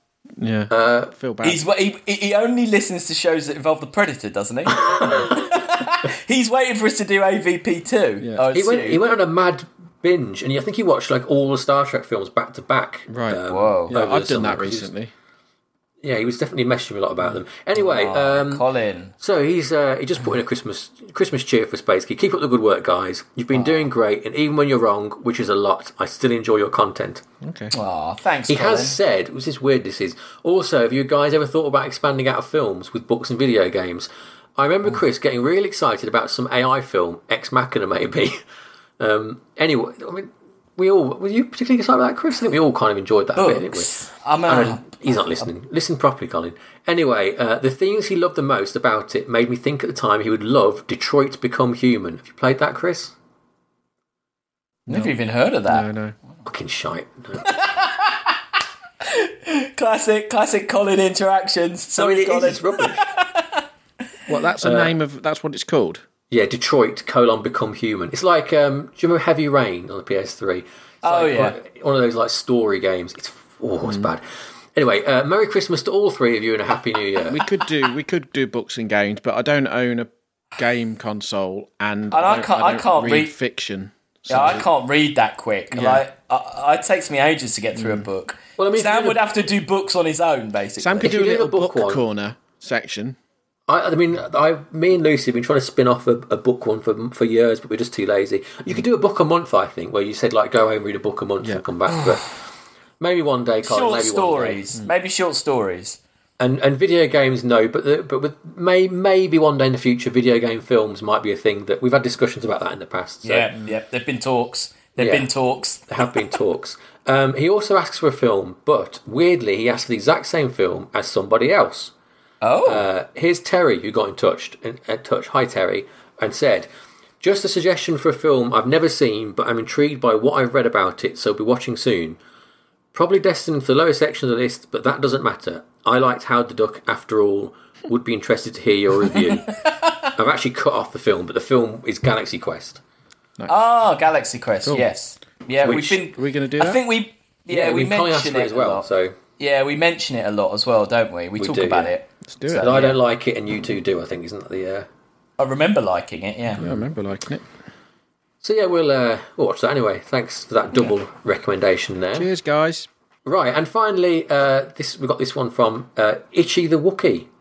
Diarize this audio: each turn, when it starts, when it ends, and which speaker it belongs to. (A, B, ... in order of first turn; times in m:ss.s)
0:00.4-0:01.6 A
0:00.7-0:01.1 B
0:01.4-0:09.0 C
0:04.7-0:05.4 B
0:08.5-0:14.9 B
0:13.1-0:15.1 A
0:13.5-0:13.9 C
0:16.0-0:18.6 B
0:17.8-0:19.1 C
0:19.2-0:27.2 B
0:23.5-0:23.8 C
0:27.4-0:27.7 A
0:27.7-0:29.0 C
0:28.5-0:38.4 B
0:39.0-0:43.9 B
0:43.4-0:44.9 C
0:44.4-0:53.1 B
0:54.9-0:55.1 A
0:54.9-0:55.9 C
0:55.7-0:56.2 A
0:56.4-0:57.8 B
0:57.4-0:58.4 C
0:59.0-1:03.6 C
1:02.0-1:03.1 B
1:04.3-1:06.0 A
1:04.6-1:04.9 B
1:06.3-1:14.2 B
1:11.0-1:11.6 C
1:14.7-1:17.4 B
1:17.3-1:24.6 A
1:22.1-1:23.3 C
1:24.3-1:31.1 C
1:25.7-1:26.0 A
1:27.8-1:28.1 A
1:28.6-1:29.2 B
1:30.8-1:33.2 A
1:31.0-1:32.0 B
1:33.7-1:42.4 B
1:43.0-1:44.6 B
1:43.6-1:46.0 C
1:46.4-1:53.5 B
1:53.2-1:55.9 C
1:55.0-1:55.3 B
1:55.9-2:01.9 B
2:02.4-2:02.9 C
2:02.6-2:06.7 B
2:07.2-2:12.2 B
2:12.9-2:19.5 B
2:19.5-2:20.1 C
2:20.2-2:22.8 B
2:23.5-2:28.8 C
2:24.6-2:24.9 A
2:25.6-2:26.8 A
2:27.5-2:29.2 B
2:29.4-2:33.0 C
2:31.4-2:31.9 B
2:32.2-2:32.7 A
2:32.6-2:34.9 B
2:35.4-2:36.6 C
2:36.6-2:37.4 A
2:38.4-2:42.3 B
2:42.1-2:42.9 A
2:43.2-2:47.3 B